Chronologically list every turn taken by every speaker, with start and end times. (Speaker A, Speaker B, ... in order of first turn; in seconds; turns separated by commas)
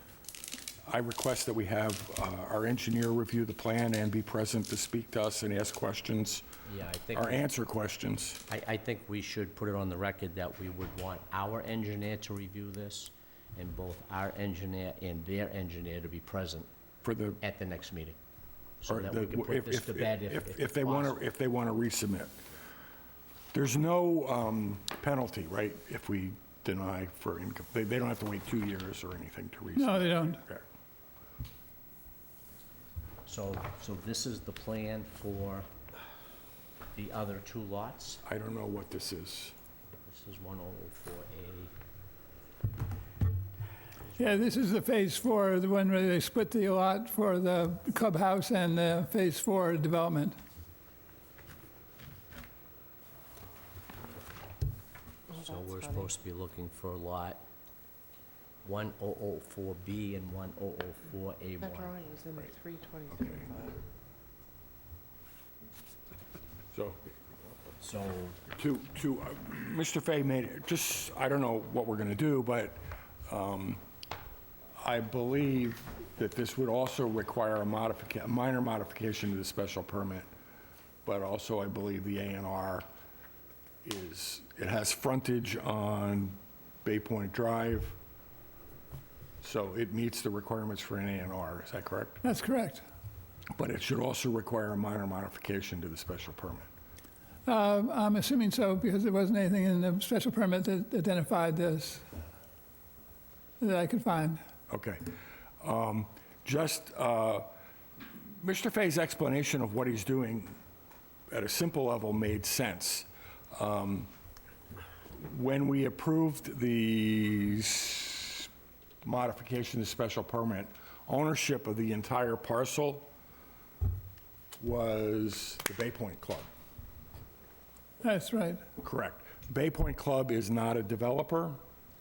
Speaker A: 0.9-6.5, Speaker B: 6.7-7.4, Speaker A: 7.1-8.4, Speaker B: 8.5-16.7, Speaker A: 17.0-17.4, Speaker B: 17.4-18.1, Speaker B: 18.8-21.2, Speaker A: 18.9-22.4, Speaker A: 23.5-30.6, Speaker C: 29.8-30.4, Speaker B: 33.3-35.7, Speaker B: 37.0-38.2, Speaker A: 38.2-39.5, Speaker B: 40.0-41.7, Speaker B: 44.0-44.5, Speaker C: 44.2-50.4, Speaker D: 55.3-56.1, Speaker B: 55.4-57.4, Speaker B: 58.6-62.0, Speaker D: 61.6-63.8, Speaker A: 66.7-67.0, Speaker B: 67.8-68.4, Speaker A: 68.5-73.8, Speaker A: 74.8-80.3, Speaker A: 81.0-82.9, Speaker A: 83.8-88.0, Speaker A: 89.4-92.2, Speaker C: 92.2-92.8, Speaker A: 93.5-96.7, Speaker C: 97.5-102.0, Speaker C: 103.6-104.4, Speaker A: 104.7-105.1, Speaker A: 105.6-107.5, Speaker A: 108.4-110.6, Speaker A: 111.3-114.1, Speaker A: 115.2-118.5, Speaker A: 119.0-123.1, Speaker A: 124.6-126.5, Speaker C: 128.0-128.6, Speaker A: 128.8-131.6